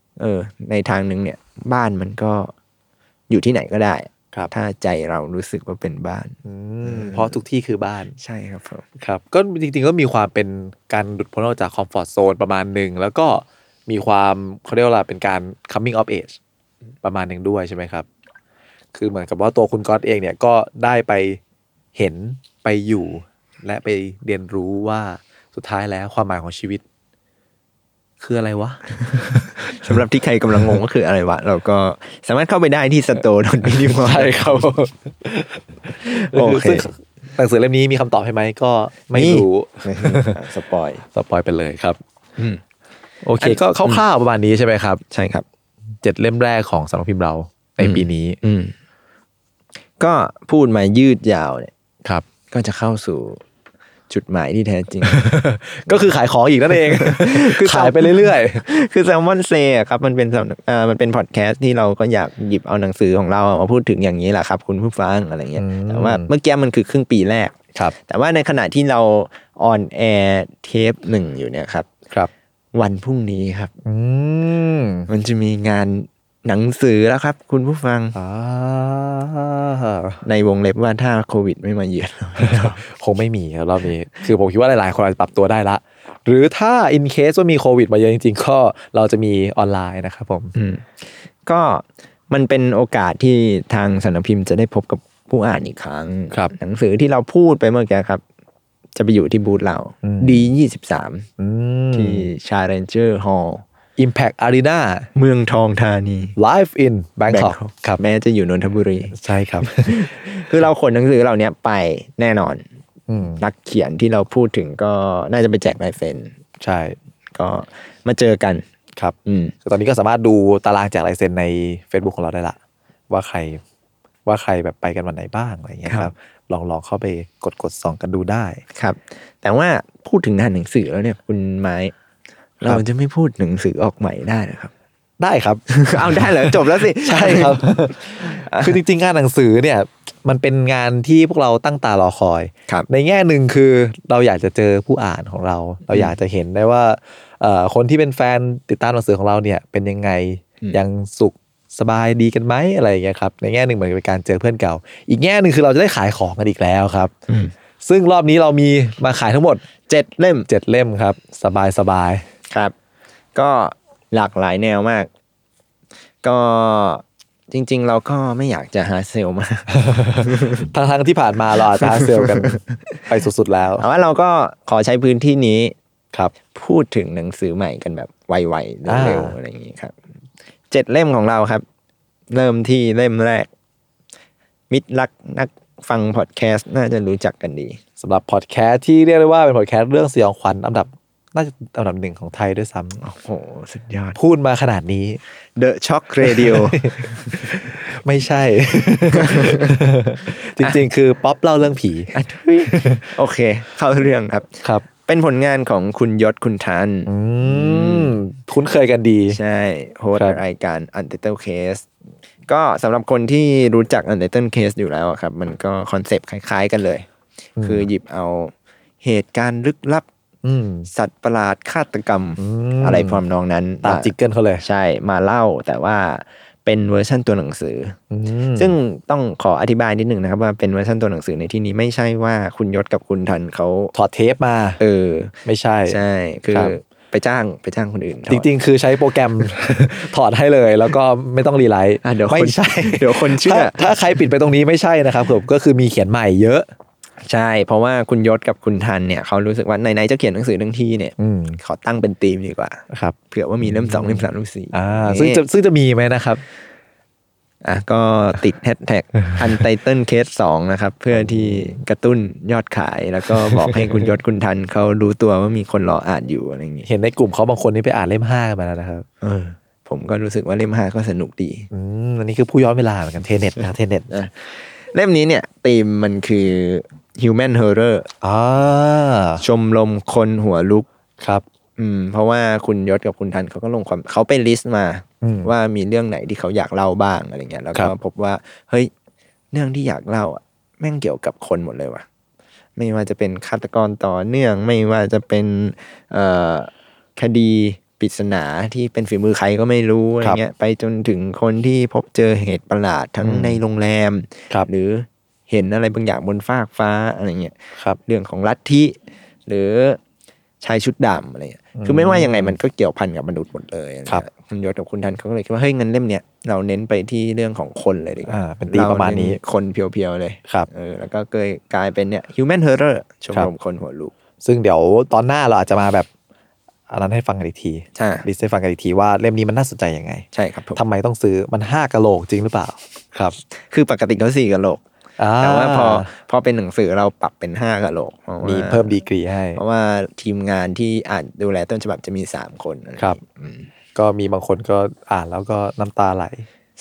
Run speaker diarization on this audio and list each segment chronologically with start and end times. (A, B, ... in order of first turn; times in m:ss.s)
0:00.2-0:02.5 A
0:03.3-0:07.4 A
0:06.4-0:08.2 B
0:08.2-0:08.8 A
0:09.0-0:16.4 B
0:17.0-0:18.1 B
0:18.9-0:21.4 B
0:21.9-0:26.8 B
0:28.2-0:30.0 B
0:29.2-0:34.6 A
0:33.7-0:40.4 B
0:36.0-0:36.9 A
0:39.1-0:41.0 A
0:41.1-0:42.0 B
0:43.2-0:45.0 B
0:43.4-0:44.0 A
0:45.1-0:45.4 A
0:46.0-0:48.4 B
0:47.8-0:48.7 A
0:50.0-0:51.7 A
0:52.5-0:53.4 A
0:54.1-0:55.4 A
0:55.0-0:58.6 B
0:56.8-1:11.9 A
1:05.6-1:06.3 B
1:12.7-1:13.7 A
1:13.8-1:15.1 B
1:15.1-1:18.2 A
1:18.1-1:20.2 B
1:20.2-1:22.8 A
1:22.4-1:30.5 B
1:30.6-1:38.2 A
1:39.0-1:41.3 A
1:40.0-1:40.5 B
1:41.4-1:42.3 B
1:41.9-1:43.6 A
1:44.0-1:45.1 B
1:45.1-1:46.4 A
1:46.4-1:48.0 B
1:47.3-1:52.6 A
1:49.1-1:50.1 B
1:53.1-1:53.4 B
1:53.3-1:56.3 A
1:56.6-1:57.0 B
1:57.4-1:58.6 A
1:59.0-2:02.6 B
1:59.2-1:59.5 A
2:03.1-2:03.6 B
2:04.3-2:08.6 B
2:05.9-2:06.1 A
2:08.7-2:11.9 A
2:12.6-2:14.7 A
2:15.2-2:37.1 B
2:15.7-2:18.8 A
2:25.9-2:26.2 A
2:37.8-2:39.6 B
2:39.9-2:40.5 A
2:40.5-2:42.2 B
2:43.4-2:45.1 A
2:46.2-2:50.7 A
2:49.8-2:53.8 B
2:51.8-2:52.6 A
2:53.8-2:55.7 A
2:56.5-3:00.0 A
2:58.9-2:59.4 B
3:00.7-3:01.6 A
3:02.3-3:03.5 A
3:04.7-3:07.8 A
3:08.0-3:13.0 B
3:13.0-3:14.2 A
3:14.2-3:15.2 B
3:15.6-3:17.5 A
3:16.2-3:22.1 B
3:19.2-3:19.7 A
3:22.1-3:28.2 A
3:22.7-3:23.1 B
3:27.0-3:29.4 B
3:29.3-3:31.9 A
3:32.4-3:37.1 A
3:37.6-3:37.9 B
3:37.6-3:40.0 A
3:40.4-3:40.9 B
3:40.9-3:48.0 A
3:42.4-3:43.2 B
3:43.8-3:44.6 B
3:48.1-3:48.7 B
3:48.6-3:53.9 A
3:53.9-3:54.8 B
3:54.8-3:55.3 A
3:55.4-3:56.0 B
3:55.9-3:58.5 A
3:58.3-4:06.7 B
4:02.0-4:03.9 A
4:07.2-4:15.4 A
4:11.2-4:11.6 B
4:12.9-4:16.4 B
4:17.6-4:26.9 A
4:21.1-4:21.8 B
4:23.4-4:24.0 B
4:26.9-4:29.0 B
4:29.2-4:31.7 A
4:31.7-4:34.1 B
4:34.1-4:38.1 A
4:38.2-4:39.4 B
4:39.4-4:40.9 A
4:41.2-4:41.4 B
4:41.8-4:48.9 A
4:45.2-4:45.5 B
4:49.5-4:52.0 A
4:52.8-5:09.0 A
5:03.2-5:03.6 B
5:09.5-5:10.0 A
5:10.6-5:24.1 A
5:11.7-5:12.6 B
5:18.3-5:19.4 B
5:24.4-5:26.1 B
5:26.9-5:33.4 B
5:28.0-5:28.3 A
5:30.3-5:30.8 A
5:33.6-5:34.8 A
5:35.2-5:36.1 B
5:35.4-5:39.0 A
5:38.4-5:39.6 B
5:39.6-5:43.7 A
5:44.0-5:46.5 B